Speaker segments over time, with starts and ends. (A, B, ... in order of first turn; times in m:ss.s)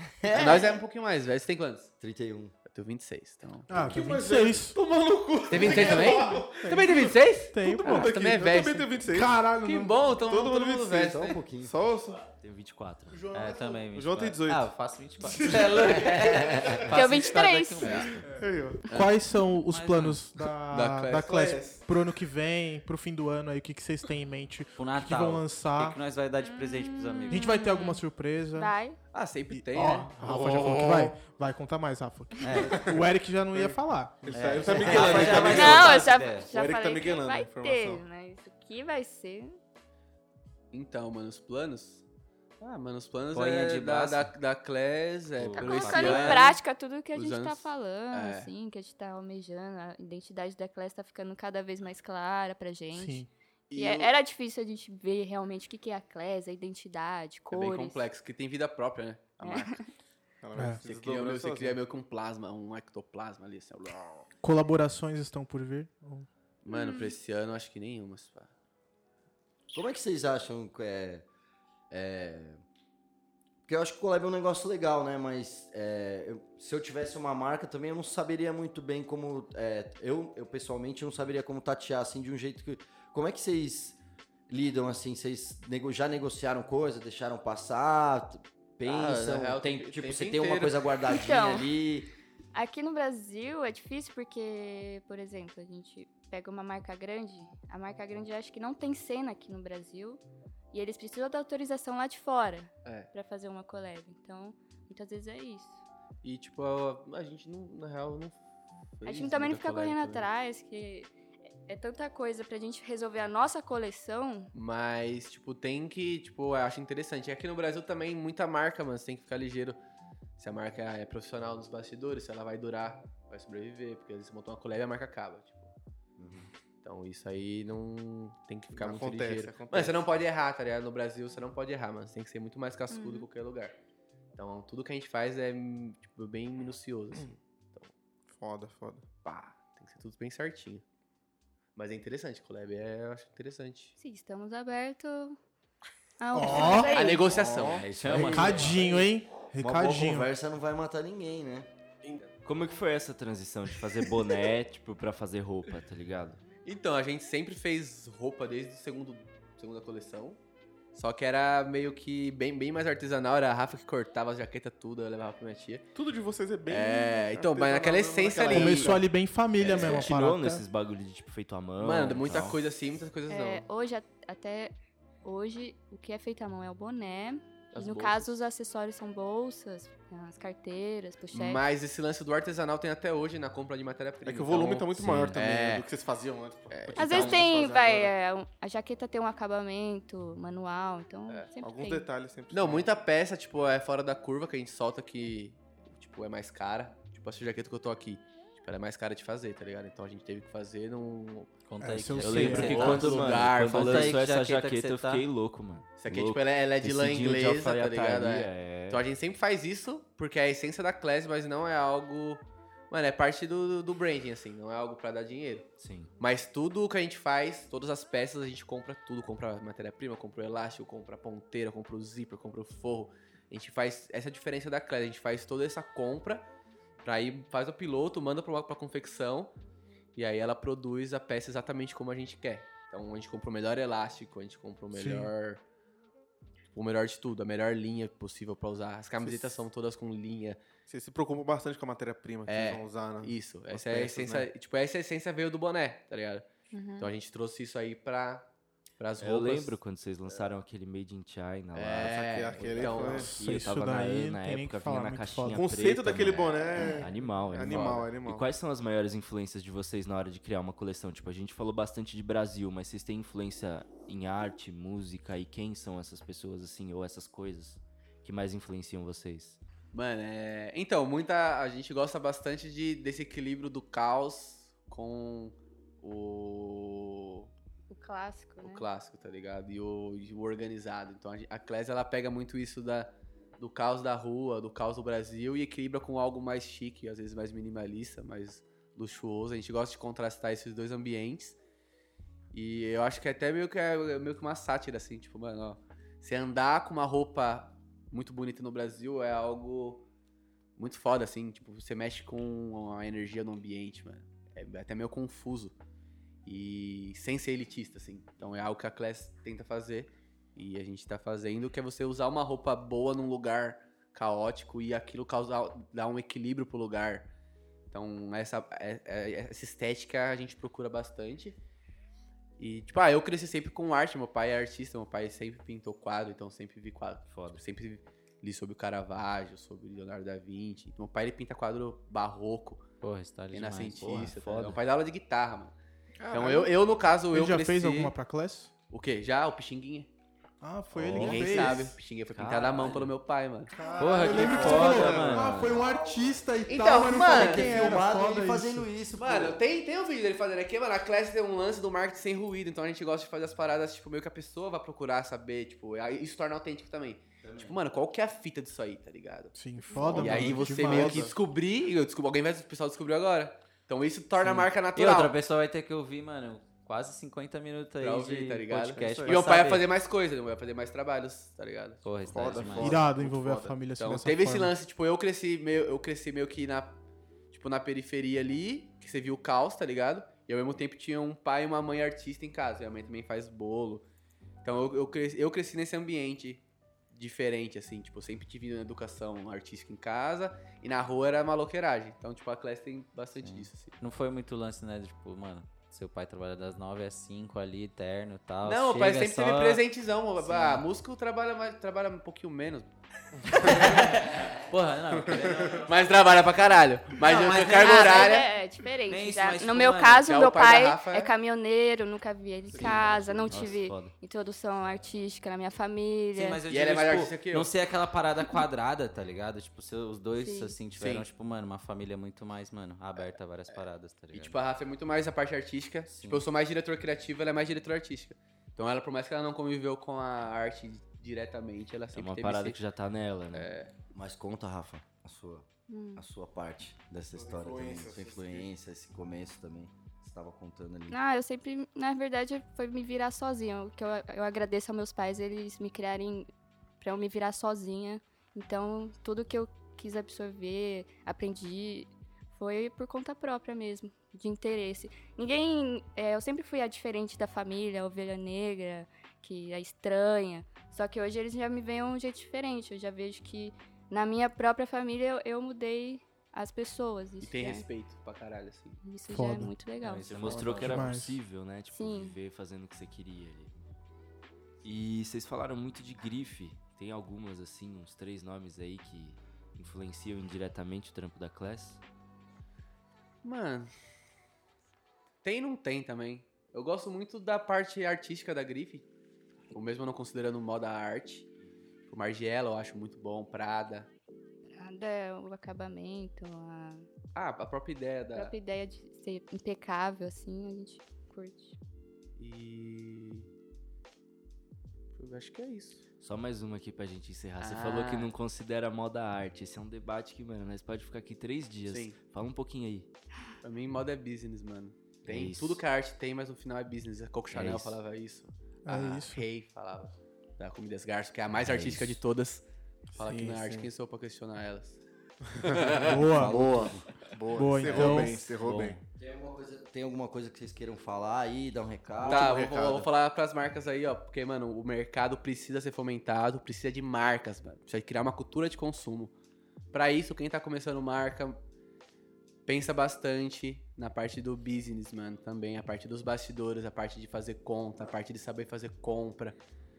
0:00.2-0:00.7 A
0:00.3-0:01.9 B
0:02.0-0:02.5 A
0:02.7-0:03.7 B
0:03.7-0:04.8 C
0:03.8-0:09.5 D
0:05.5-0:08.9 B
0:05.7-0:06.8 C
0:07.5-0:08.2 C
0:09.0-0:10.0 C
0:09.6-0:11.4 B
0:10.2-0:12.2 D
0:11.0-0:11.7 A
0:12.4-0:13.2 E
0:13.1-0:13.8 C
0:13.3-0:18.2 F
0:13.9-0:16.0 D
0:16.2-0:16.8 A
0:16.9-0:18.1 G
0:17.8-0:18.2 B
0:18.3-0:18.9 D
0:18.9-0:26.0 C
0:19.6-0:20.2 F
0:20.7-0:21.4 B
0:21.2-0:21.8 D
0:24.7-0:27.6 F
0:26.4-0:28.0 G
0:27.3-0:28.7 C
0:28.5-0:29.0 G
0:29.1-0:30.7 B
0:29.5-0:35.5 C
0:30.2-0:31.2 D
0:32.4-0:32.9 F
0:33.5-0:38.0 D
0:34.3-0:36.5 F
0:35.4-0:39.6 G
0:40.7-0:42.0 B
0:42.6-0:46.6 B
0:43.3-0:44.3 F
0:45.4-0:46.6 F
0:45.5-0:58.1 G
0:47.1-0:48.5 B
0:52.9-0:53.3 C
0:53.7-0:54.1 B
0:57.5-0:59.8 B
0:59.4-0:59.9 G
1:00.4-1:01.8 D
1:00.5-1:00.8 C
1:00.8-1:04.3 B
1:04.4-1:06.3 C
1:06.6-1:08.5 B
1:06.7-1:07.1 G
1:09.7-1:11.2 A
1:11.9-1:12.6 A
1:13.6-1:24.0 A
1:24.5-1:32.1 A
1:28.8-1:31.2 B
1:31.1-1:31.7 G
1:32.5-1:40.2 G
1:40.7-1:45.8 G
1:42.8-1:43.1 B
1:46.2-1:48.4 B
1:49.0-1:50.2 B
1:49.0-1:51.1 G
1:51.7-1:54.5 G
1:54.5-1:59.8 B
2:00.4-2:05.7 B
2:06.2-2:06.5 A
2:06.8-2:13.7 B
2:08.7-2:10.0 D
2:12.9-2:13.3 G
2:14.4-2:17.9 B
2:18.3-2:19.0 D
2:19.2-2:20.8 B
2:21.8-2:24.0 B
2:24.0-2:25.4 G
2:26.2-2:27.4 G
2:26.3-2:26.9 C
2:26.7-2:28.1 B
2:27.0-2:31.7 A
2:27.9-2:28.9 F
2:28.2-2:30.3 C
2:32.0-2:32.3 B
2:32.4-2:36.4 E
2:36.6-2:40.4 B
2:40.9-2:45.8 B
2:45.9-2:49.0 D
2:46.7-2:49.0 B
2:48.5-2:50.6 C
2:49.6-2:50.1 B
2:49.6-2:52.6 E
2:51.8-2:53.6 B
2:53.3-3:01.6 G
2:57.7-2:58.3 B
3:01.3-3:05.9 B
3:04.2-3:08.1 D
3:05.0-3:05.3 E
3:06.7-3:07.4 B
3:06.9-3:12.1 G
3:11.6-3:12.9 D
3:12.5-3:21.5 B
3:21.7-3:25.2 F
3:21.8-3:22.9 C
3:22.2-3:24.2 B
3:22.2-3:29.0 E
3:26.0-3:35.7 B
3:35.8-3:36.1 E
3:36.2-3:46.5 B
3:47.0-3:49.5 B
3:50.1-3:55.6 B
3:54.9-3:55.3 C
3:56.7-4:00.6 B
3:59.2-3:59.6 D
4:00.9-4:04.5 D
4:02.5-4:06.4 B
4:06.7-4:07.1 G
4:07.0-4:08.5 B
4:09.0-4:09.8 B
4:09.2-4:29.6 E
4:11.7-4:13.4 B
4:12.0-4:13.4 D
4:13.1-4:15.6 C
4:15.5-4:18.5 D
4:29.9-4:37.5 B
4:37.9-4:38.9 G
4:38.6-4:51.6 B
4:52.5-5:00.0 B
5:00.8-5:05.8 B
5:06.4-5:17.3 B
5:17.9-5:21.6 B
5:22.6-5:32.8 B
5:27.3-5:27.6 E
5:33.0-5:34.4 F
5:33.5-5:35.7 B
5:34.4-5:34.8 E
5:36.2-5:36.8 D
5:36.3-5:38.1 B
5:37.3-5:38.7 C
5:38.9-5:40.1 B
5:40.6-5:41.9 C
5:41.0-5:41.6 F
5:41.1-5:43.7 B
5:41.1-5:41.7 E
5:42.3-5:43.1 E
5:43.7-5:48.9 C
5:43.8-5:44.5 D
5:44.0-5:45.6 F
5:44.2-5:45.8 E
5:45.4-5:49.6 A
5:46.7-5:48.0 B
5:49.2-5:59.6 B
5:57.4-5:57.8 A
5:59.5-6:01.3 C
5:59.9-6:01.4 D
6:00.1-6:05.4 B
6:04.5-6:09.9 F
6:08.0-6:12.0 B
6:08.9-6:09.5 D
6:12.0-6:13.0 F
6:12.2-6:13.8 D
6:12.8-6:14.7 C
6:14.0-6:17.0 B
6:17.5-6:24.0 B
6:24.6-6:34.0 B
6:33.4-6:39.8 F
6:38.6-6:42.9 B
6:40.4-6:40.8 F
6:43.5-6:44.5 B
6:43.5-6:45.9 F
6:45.2-6:45.8 D
6:45.8-6:48.5 B
6:47.2-6:48.4 F
6:47.8-6:56.6 G
6:49.1-6:50.2 F
6:50.1-6:51.3 B
6:52.7-6:54.1 E
6:56.3-7:04.6 F
6:56.7-6:57.7 B
7:00.3-7:00.8 G
7:00.9-7:01.3 B
7:03.2-7:12.8 B
7:06.1-7:06.4 F
7:12.1-7:13.7 E
7:13.5-7:13.9 B
7:14.1-7:21.2 A
7:15.9-7:16.2 G
7:17.3-7:18.7 D
7:21.1-7:26.5 G
7:27.0-7:47.8 G
7:47.4-7:49.0 B
7:49.0-7:50.5 G
7:49.3-7:49.7 C
7:50.0-7:51.1 F
7:50.3-7:53.8 E
7:50.6-7:51.4 C
7:51.9-7:52.4 G
7:54.8-8:02.0 E
8:03.4-8:03.9 B
8:05.4-8:09.0 B
8:09.7-8:11.5 B
8:12.1-8:14.1 B
8:14.8-8:17.1 G
8:17.3-8:18.5 B
8:18.3-8:21.8 G
8:22.4-8:23.5 B
8:25.1-8:26.0 B
8:26.2-8:33.1 E
8:27.6-8:28.3 B
8:31.9-8:32.2 B
8:33.6-8:45.0 B
8:35.2-8:35.8 E
8:37.5-8:37.9 E
8:38.8-8:39.4 C
8:41.5-8:42.2 E
8:43.2-8:43.9 C
8:45.5-8:49.0 D
8:45.6-8:46.2 B
8:46.0-8:46.7 C
8:46.3-8:47.0 A
8:47.5-8:48.5 C
8:47.9-8:48.2 A
8:48.6-8:49.0 E
8:49.1-8:53.0 A
8:52.2-8:53.1 D
8:52.2-8:59.3 B
8:59.9-9:01.6 B
9:02.7-9:09.6 B